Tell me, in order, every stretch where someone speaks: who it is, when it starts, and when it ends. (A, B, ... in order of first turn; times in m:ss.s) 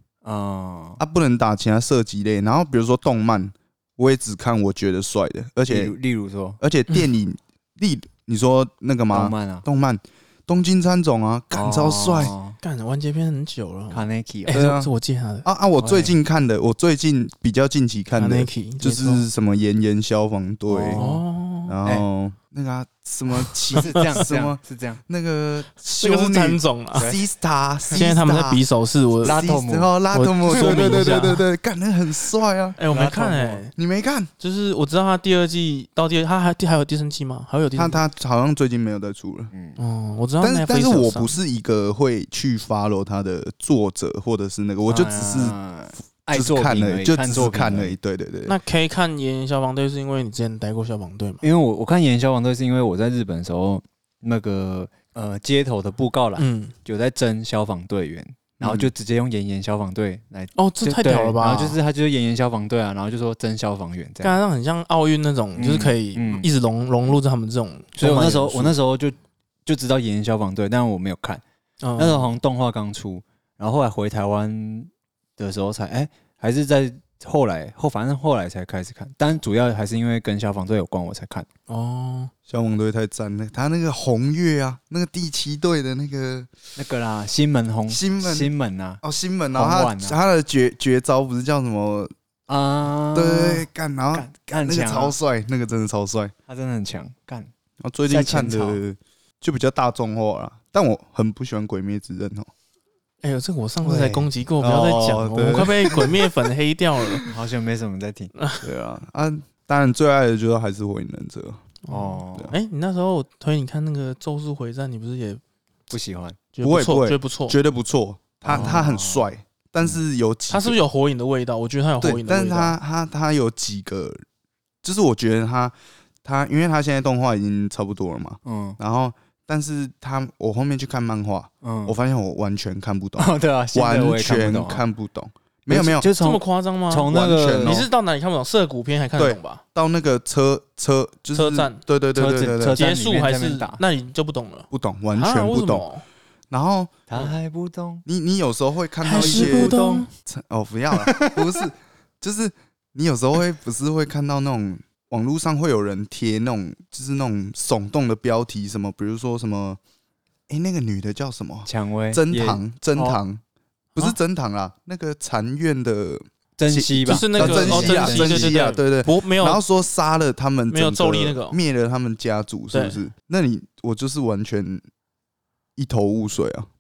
0:00.2-0:01.0 A
0:01.0-0:05.9 B
0:05.7-0:06.6 A
0:06.6-0:12.4 B
0:09.1-0:09.7 A
0:11.5-0:12.6 A
0:12.6-0:15.5 C
0:13.9-0:14.6 A
0:14.5-0:14.9 B
0:15.4-0:21.0 B
0:15.8-0:16.1 A
0:18.2-0:19.2 C
0:20.7-0:21.2 A
0:20.9-0:21.7 C
0:21.7-0:28.6 B
0:23.7-0:25.0 A
0:23.8-0:24.2 C
0:26.0-0:27.1 C
0:26.9-0:27.3 A
0:28.0-0:29.4 C
0:29.2-0:32.8 B
0:29.2-0:29.9 A
0:30.1-0:31.4 C
0:30.5-0:31.1 A
0:32.8-0:33.8 C
0:32.9-0:33.6 A
0:33.8-0:34.3 B
0:34.4-0:38.0 C
0:37.8-0:39.5 B
0:39.5-0:39.8 A
0:39.8-0:41.4 C
0:40.4-0:45.6 B
0:44.9-0:48.0 A
0:46.3-0:48.6 B
0:48.5-0:51.4 C
0:51.4-1:04.4 A
0:56.4-0:56.7 C
0:58.6-0:58.9 B
1:00.6-1:01.8 C
1:04.2-1:08.8 C
1:05.6-1:06.5 A
1:08.0-1:11.4 A
1:11.8-1:12.3 C
1:12.0-1:21.5 A
1:21.7-1:22.3 C
1:22.5-1:26.5 B
1:26.8-1:29.0 A
1:27.9-1:28.5 B
1:29.0-1:32.1 B
1:29.5-1:30.2 A
1:32.5-1:35.2 A
1:33.2-1:36.3 B
1:36.5-1:37.5 A
1:37.8-1:42.5 B
1:38.1-1:38.8 A
1:43.2-1:47.3 C
1:43.8-1:44.2 A
1:44.6-1:46.3 B
1:47.3-1:48.3 A
1:48.4-1:48.6 C
1:48.6-1:51.6 B
1:51.8-1:55.4 C
1:51.9-1:52.6 A
1:55.9-1:56.4 A
1:56.6-1:57.6 C
1:56.6-2:00.8 B
1:58.5-1:59.2 A
2:00.5-2:02.8 C
2:02.0-2:04.2 B
2:04.8-2:16.1 B
2:08.4-2:08.8 A
2:11.6-2:12.0 A
2:13.2-2:14.8 A
2:15.7-2:17.8 A
2:16.2-2:17.1 C
2:17.1-2:17.9 B
2:17.6-2:19.6 C
2:19.2-2:22.8 B
2:21.4-2:21.8 C
2:22.2-2:23.8 A
2:22.8-2:26.0 C
2:24.7-2:25.9 B
2:26.5-2:27.0 B
2:27.1-2:28.0 A
2:28.1-2:39.8 B
2:29.0-2:30.1 C
2:29.1-2:30.1 A
2:30.9-2:31.4 A
2:40.5-2:43.4 B
2:41.7-2:43.2 A
2:44.0-2:54.8 B
2:46.6-2:48.6 A
2:47.1-2:49.6 C
2:50.7-2:51.6 C
2:52.7-2:53.0 C
2:55.8-2:56.7 B